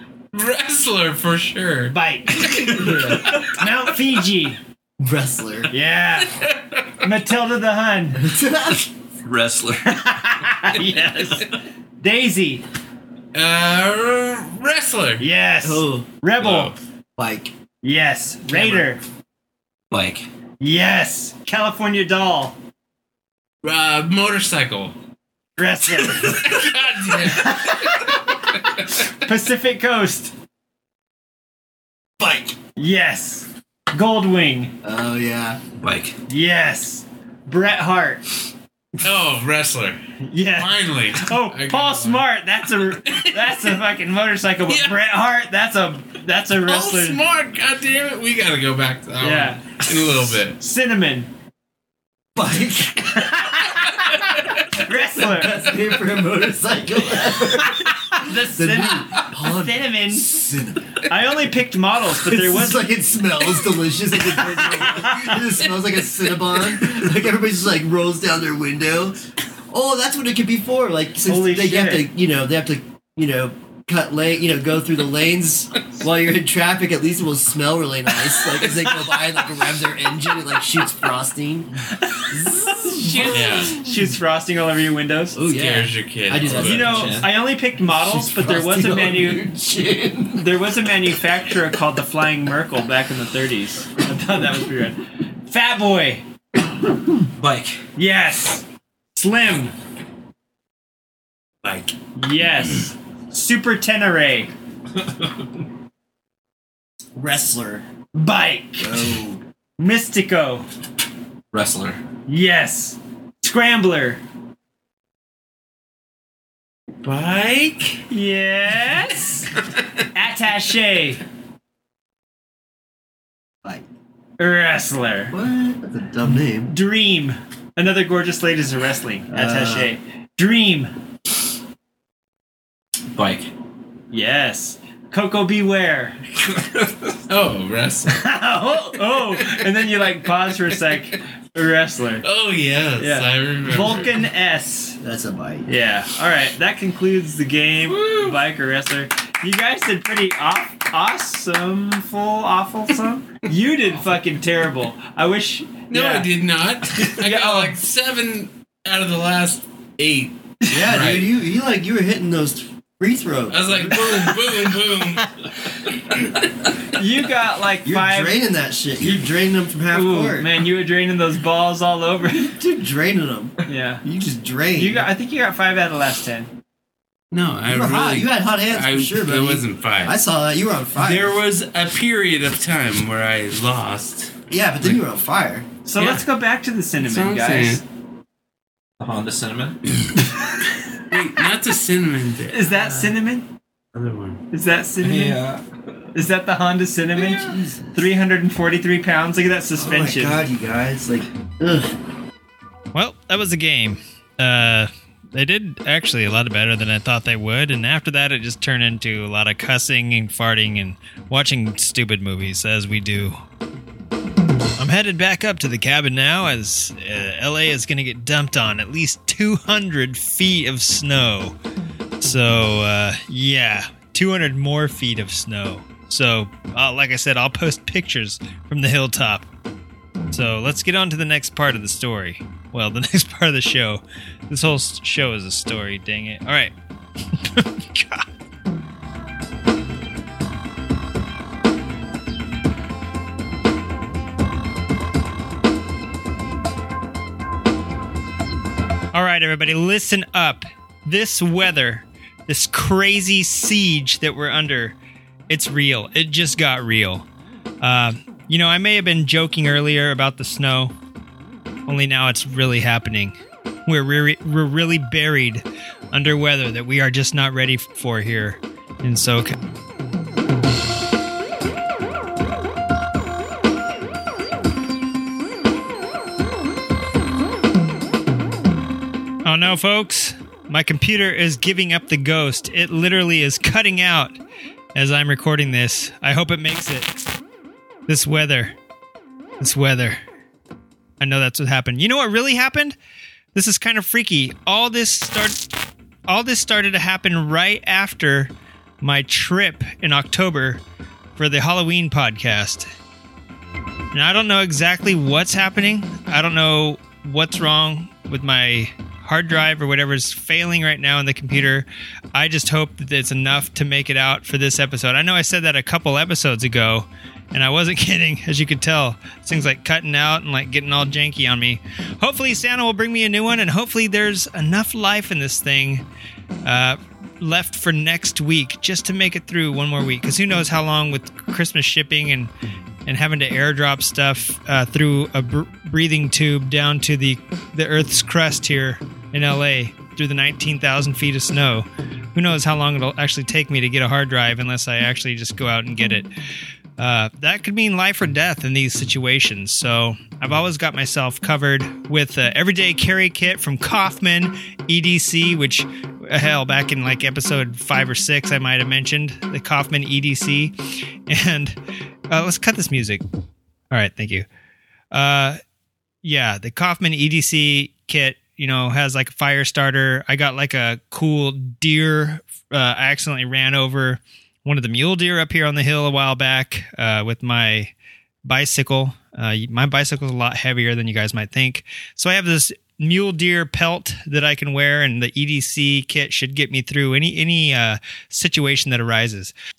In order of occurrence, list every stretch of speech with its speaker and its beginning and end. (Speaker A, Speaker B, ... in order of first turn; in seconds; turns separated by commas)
Speaker A: 0.3-1.9, Speaker B: 1.9-4.6, Speaker C: 2.8-3.2, Speaker D: 5.0-5.7, Speaker B: 5.7-6.5, Speaker A: 6.4-6.8, Speaker B: 7.0-8.3, Speaker D: 8.2-8.9, Speaker C: 9.2-10.0, Speaker B: 9.8-11.5, Speaker B: 12.0-12.6, Speaker A: 13.3-15.3, Speaker B: 15.2-16.7, Speaker D: 15.6-16.1, Speaker A: 16.4-16.8, Speaker D: 17.2-17.5, Speaker B: 17.8-19.0, Speaker C: 19.9-20.2, Speaker B: 20.6-22.6, Speaker A: 23.6-24.9, Speaker B: 25.6-26.6, Speaker A: 26.2-27.9, Speaker B: 27.2-28.2, Speaker B: 28.9-30.3, Speaker D: 32.2-32.6, Speaker B: 32.8-34.7, Speaker D: 34.8-35.6, Speaker C: 35.8-36.2, Speaker B: 36.3-38.2, Speaker A: 39.0-40.0, Speaker B: 40.2-47.2, Speaker A: 40.5-42.2, Speaker A: 43.0-43.5, Speaker A: 44.7-45.0, Speaker A: 46.6-50.6, Speaker B: 49.2-49.8, Speaker B: 50.6-51.3, Speaker D: 52.3-53.2, Speaker B: 53.0-55.9, Speaker A: 54.1-54.5, Speaker D: 55.3-61.0, Speaker B: 57.5-60.5, Speaker B: 61.1-63.2, Speaker D: 62.2-83.7, Speaker B: 64.7-65.4, Speaker B: 71.2-72.1, Speaker A: 78.5-79.4, Speaker A: 83.0-83.8, Speaker B: 83.2-85.4, Speaker D: 85.3-87.3, Speaker A: 85.5-87.1, Speaker B: 86.4-89.5, Speaker C: 86.9-87.2, Speaker D: 87.8-90.5, Speaker B: 90.3-96.2, Speaker C: 97.4-97.8, Speaker B: 98.0-98.6, Speaker B: 99.2-99.7, Speaker B: 102.1-104.5, Speaker D: 107.2-107.8, Speaker B: 108.1-109.2, Speaker D: 108.8-109.4, Speaker B: 109.8-110.7, Speaker C: 111.5-112.0, Speaker B: 112.3-114.2, Speaker A: 117.0-118.0, Speaker B: 118.1-119.5, Speaker B: 120.1-121.2, Speaker B: 124.4-125.3, Speaker D: 125.3-126.7, Speaker B: 126.7-130.9, Speaker D: 129.3-129.9, Speaker C: 133.1-133.5, Speaker B: 134.1-136.2, Speaker A: 137.3-138.3, Speaker B: 138.1-142.2, Speaker A: 142.2-144.2, Speaker B: 143.0-145.0, Speaker D: 145.0-145.7, Speaker B: 145.7-156.3, Speaker A: 147.9-148.4, Speaker A: 155.9-160.3, Speaker B: 156.9-157.8, Speaker D: 160.7-164.5, Speaker A: 160.9-161.3, Speaker A: 163.5-165.3, Speaker B: 166.9-168.4, Speaker D: 167.8-170.5, Speaker B: 169.9-172.5, Speaker D: 172.4-175.1, Speaker B: 173.7-174.0, Speaker B: 174.7-176.5, Speaker A: 177.3-180.2, Speaker D: 177.7-181.3, Speaker A: 180.9-185.0, Speaker D: 184.5-185.7, Speaker B: 185.8-187.8, Speaker A: 186.0-186.2, Speaker A: 187.0-187.8, Speaker C: 189.0-189.8, Speaker A: 191.0-192.7, Speaker B: 192.5-193.5, Speaker A: 193.9-194.4, Speaker B: 194.5-195.5, Speaker C: 195.0-195.6, Speaker B: 196.1-200.4, Speaker D: 197.1-198.0, Speaker D: 199.8-202.0, Speaker E: 202.9-213.4, Speaker E: 214.8-221.6, Speaker E: 222.2-229.5, Speaker E: 230.3-236.7, Speaker E: 237.3-238.2, Speaker E: 249.1-255.0, Speaker E: 255.5-257.2, Speaker E: 257.8-260.9, Speaker E: 261.9-269.5, Speaker E: 279.4-284.4, Speaker E: 284.9-287.1, Speaker E: 288.1-288.7, Speaker E: 289.6-290.2, Speaker E: 291.2-292.9, Speaker E: 293.5-295.7, Speaker E: 296.3-300.8, Speaker E: 301.4-302.9, Speaker E: 304.1-326.0, Speaker E: 326.6-332.5, Speaker E: 333.1-346.3, Speaker E: 347.0-360.8, Speaker E: 361.3-361.8, Speaker E: 362.3-363.2, Speaker E: 363.9-364.5, Speaker E: 365.1-365.6, Speaker E: 366.2-377.9, Speaker E: 378.4-389.5